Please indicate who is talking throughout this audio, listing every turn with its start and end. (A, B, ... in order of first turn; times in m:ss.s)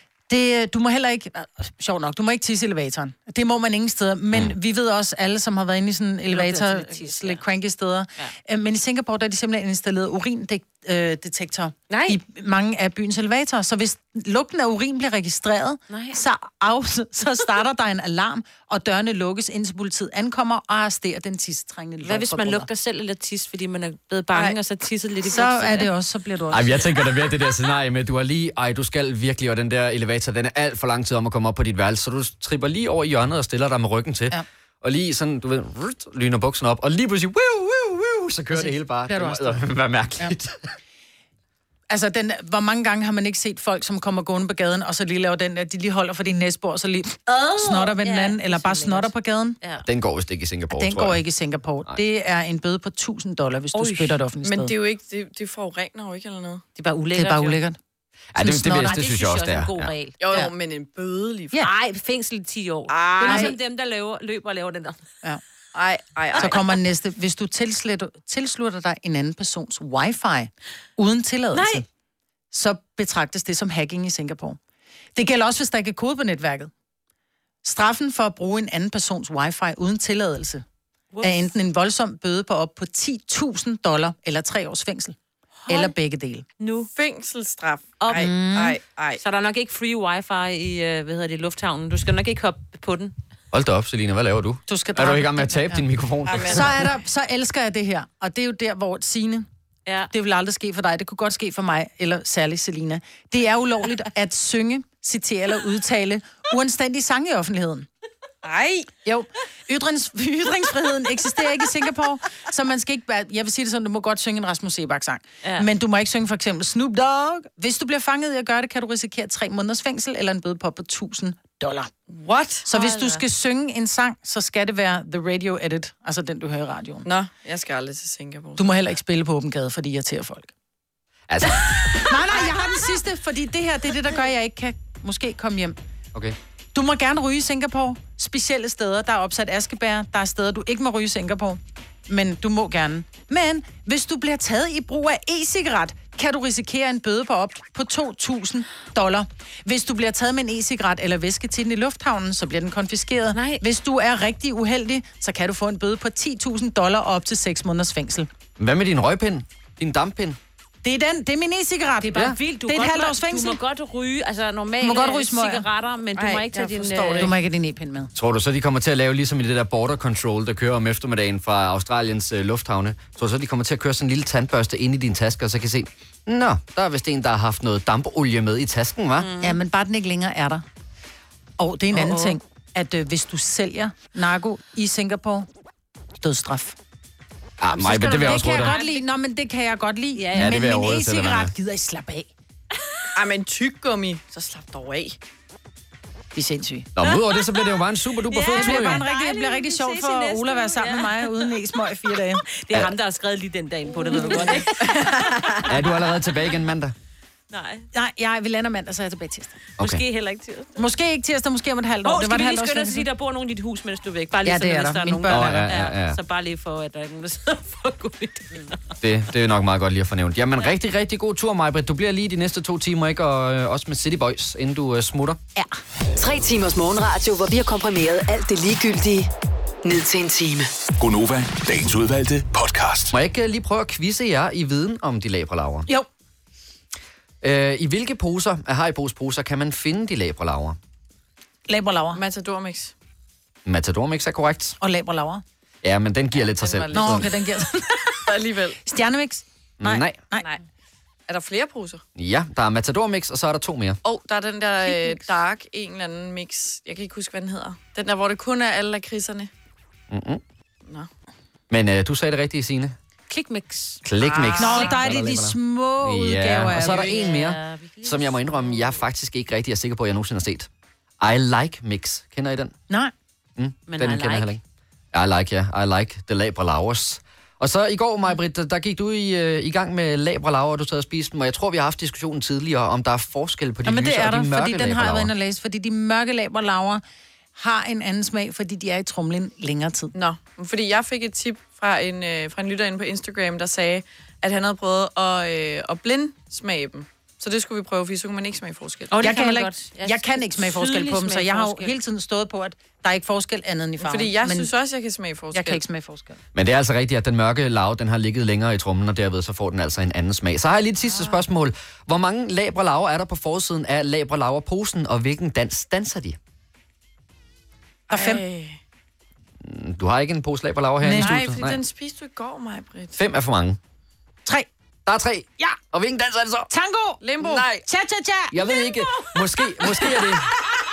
0:00.3-0:22.7 A
0:06.3-0:07.4 B
0:11.9-0:12.2 B
0:15.9-0:16.2 B
0:22.0-0:25.9 B
0:25.3-0:26.9 A
0:26.5-0:40.7 C
0:38.5-0:39.6 A
0:41.9-0:49.6 A
0:47.5-0:49.8 B
0:49.8-0:51.2 C
0:50.7-0:54.7 A
0:53.7-0:54.2 B
0:54.4-0:56.6 D
0:56.8-0:57.6 B
0:57.2-0:57.8 A
0:58.3-0:59.9 C
0:58.4-0:59.0 A
0:58.7-1:00.2 B
1:00.2-1:01.6 D
1:01.6-1:05.0 B
1:02.9-1:03.6 D
1:03.2-1:03.6 A
1:05.7-1:06.6 D
1:06.4-1:11.8 A
1:11.5-1:11.8 B
1:12.5-1:14.6 A
1:15.2-1:16.7 A
1:17.6-1:20.6 A
1:21.1-1:21.5 B
1:21.2-1:25.2 A
1:25.6-1:25.9 B
1:25.7-1:26.5 A
1:26.6-1:26.9 B
1:26.9-1:29.2 D
1:28.0-1:28.4 B
1:28.1-1:28.8 A
1:29.2-1:33.2 B
1:33.5-1:36.8 C
1:34.7-1:35.8 A
1:36.3-1:36.9 D
1:36.4-1:39.5 A
1:39.9-1:40.1 B
1:40.1-1:47.9 A
1:48.5-1:48.8 D
1:49.0-2:01.9 A
1:55.4-1:55.7 B
2:02.1-2:02.6 D
2:02.7-2:07.1 A
2:02.7-2:03.2 B
2:07.0-2:08.8 D
2:08.6-2:10.5 A
2:11.3-2:12.1 C
2:12.0-2:15.8 A
2:16.7-2:38.3 A
2:33.3-2:33.6 B
2:38.6-2:40.4 C
2:40.8-2:43.6 A
2:42.0-2:47.3 B
2:44.8-2:45.7 A
2:46.2-2:47.3 D
2:47.2-2:48.1 A
2:48.2-2:59.3 C
2:59.2-2:59.6 B
2:59.4-3:00.6 A
3:01.6-3:05.5 A
3:01.9-3:02.4 B
3:06.2-3:06.8 A
3:07.6-3:08.8 C
3:07.7-3:12.3 A
3:07.8-3:09.0 B
3:10.2-3:10.8 B
3:10.4-3:11.5 C
3:12.8-3:13.1 B
3:13.2-3:15.2 D
3:16.3-3:16.9 A
3:17.0-3:19.0 C
3:18.3-3:21.8 B
3:18.5-3:22.4 A
3:22.5-3:25.8 B
3:24.1-3:25.6 D
3:24.1-3:24.7 A
3:25.6-3:26.9 C
3:27.5-3:27.9 B
3:27.9-3:29.6 A
3:29.8-3:30.8 B
3:30.8-3:33.1 A
3:32.0-3:38.8 B
3:34.4-3:35.8 A
3:35.3-3:36.2 C
3:39.0-3:45.4 C
3:46.2-3:49.3 E
3:49.8-3:50.7 E
3:51.0-3:53.1 F
3:53.1-3:55.9 C
3:57.4-4:00.8 C
4:01.7-4:02.2 A
4:02.2-4:02.9 D
4:03.7-4:04.8 C
4:04.8-4:05.4 A
4:05.8-4:07.3 C
4:06.4-4:07.4 D
4:06.9-4:08.3 A
4:08.2-4:08.8 D
4:08.8-4:10.5 A
4:09.8-4:10.2 C
4:11.3-4:12.0 D
4:12.2-4:14.0 C
4:14.0-4:19.5 D
4:14.8-4:15.3 B
4:20.1-4:20.4 C
4:21.7-4:23.0 C
4:23.3-4:25.1 B
4:24.0-4:30.7 C
4:24.2-4:24.7 D
4:24.6-4:27.3 A
4:26.7-4:29.0 B
4:31.2-4:32.8 C
4:33.6-4:34.6 C
4:33.9-4:34.5 B
4:35.1-4:45.3 C
4:43.8-4:47.0 A
4:47.6-4:50.1 A
4:50.1-4:59.3 D
4:59.1-5:01.9 B
4:59.2-5:04.7 A
5:04.0-5:05.8 D
5:05.5-5:06.4 A
5:06.5-5:16.4 C
5:18.1-5:18.4 A
5:18.1-5:18.8 D
5:19.6-5:21.8 C
5:21.0-5:21.5 A
5:21.1-5:23.2 D
5:23.2-5:23.8 C
5:25.1-5:26.7 C
5:26.7-5:28.6 A
5:27.2-5:27.9 D
5:28.5-5:30.5 C
5:28.7-5:29.3 B